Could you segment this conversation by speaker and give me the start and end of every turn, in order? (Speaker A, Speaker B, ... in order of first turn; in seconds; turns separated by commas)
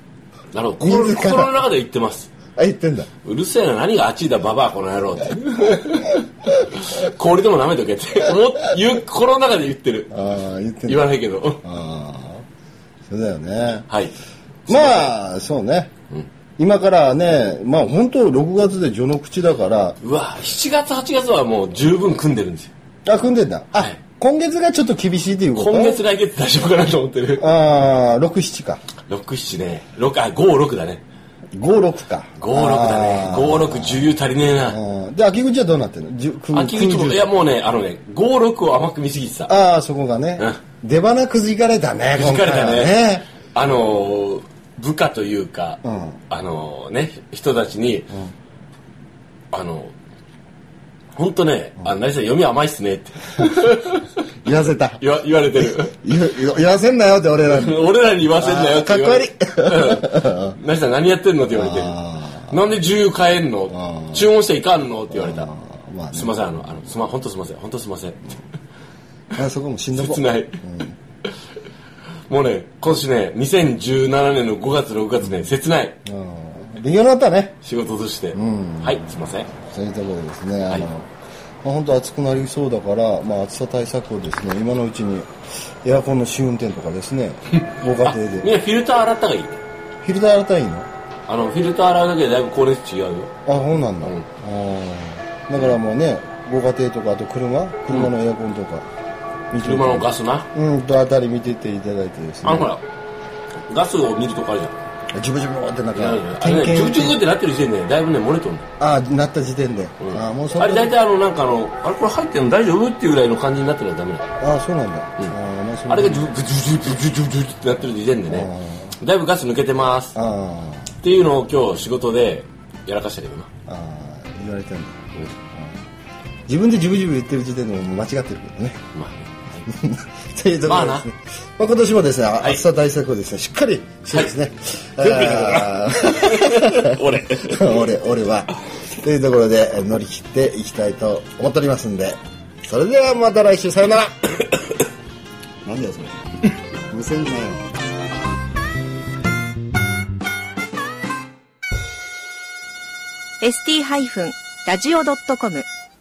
Speaker A: 0.5-2.3, Speaker B: 0.8-1.6, Speaker B: 2.5-3.1, Speaker A: 3.2-10.2, Speaker B: 10.1-11.1, Speaker A: 10.8-11.6, Speaker B: 11.6-12.4, Speaker B: 13.1-13.9, Speaker A: 13.9-14.1, Speaker A: 14.7-15.1, Speaker B: 14.7-15.9, Speaker B: 16.6-20.0, Speaker A: 20.0-22.7, Speaker B: 23.0-26.0, Speaker A: 23.7-24.0, Speaker A: 25.5-27.4, Speaker B: 27.4-28.8, Speaker A: 29.1-31.0, Speaker B: 31.5-37.3, Speaker A: 32.4-34.8, Speaker A: 36.5-39.5, Speaker B: 39.5-43.2, Speaker A: 42.1-43.0, Speaker A: 43.5-48.1, Speaker B: 45.8-46.2, Speaker A: 49.5-49.9, Speaker A: 51.1-54.1, Speaker B: 54.4-55.0, Speaker A: 55.0-56.0, Speaker B: 55.6-57.8, Speaker A: 57.5-65.5, Speaker B: 58.3-60.6, Speaker B: 61.5-62.5, Speaker B: 63.7-64.3, Speaker B: 65.1-66.5, Speaker A: 66.1-68.2, Speaker B: 69.3-71.0, Speaker A: 69.9-70.6, Speaker A: 72.3-76.0, Speaker B: 75.2-75.5, Speaker B: 76.0-77.6, Speaker A: 77.6-79.5, Speaker B: 78.3-81.1, Speaker B: 81.6-85.3, Speaker B: 85.8-88.5, Speaker A: 88.0-89.6, Speaker B: 90.0-90.9, Speaker A: 91.3-93.3, Speaker B: 93.4-98.8, Speaker A: 94.0-94.2, Speaker B: 99.5-102.7, Speaker A: 99.6-100.5, Speaker A: 102.4-102.8, Speaker A: 103.7-104.8, Speaker B: 105.1-107.2, Speaker A: 105.9-108.7, Speaker B: 108.8-111.0, Speaker A: 110.0-114.3, Speaker B: 114.4-116.3, Speaker A: 115.9-120.2, Speaker B: 118.3-118.9, Speaker B: 120.1-120.9, Speaker A: 121.0-123.5, Speaker B: 123.7-125.0, Speaker B: 126.5-128.8, Speaker A: 128.9-129.7, Speaker B: 129.7-144.1, Speaker A: 130.6-131.1, Speaker A: 135.0-137.9, Speaker B: 145.6-147.8, Speaker C: 153.4-155.7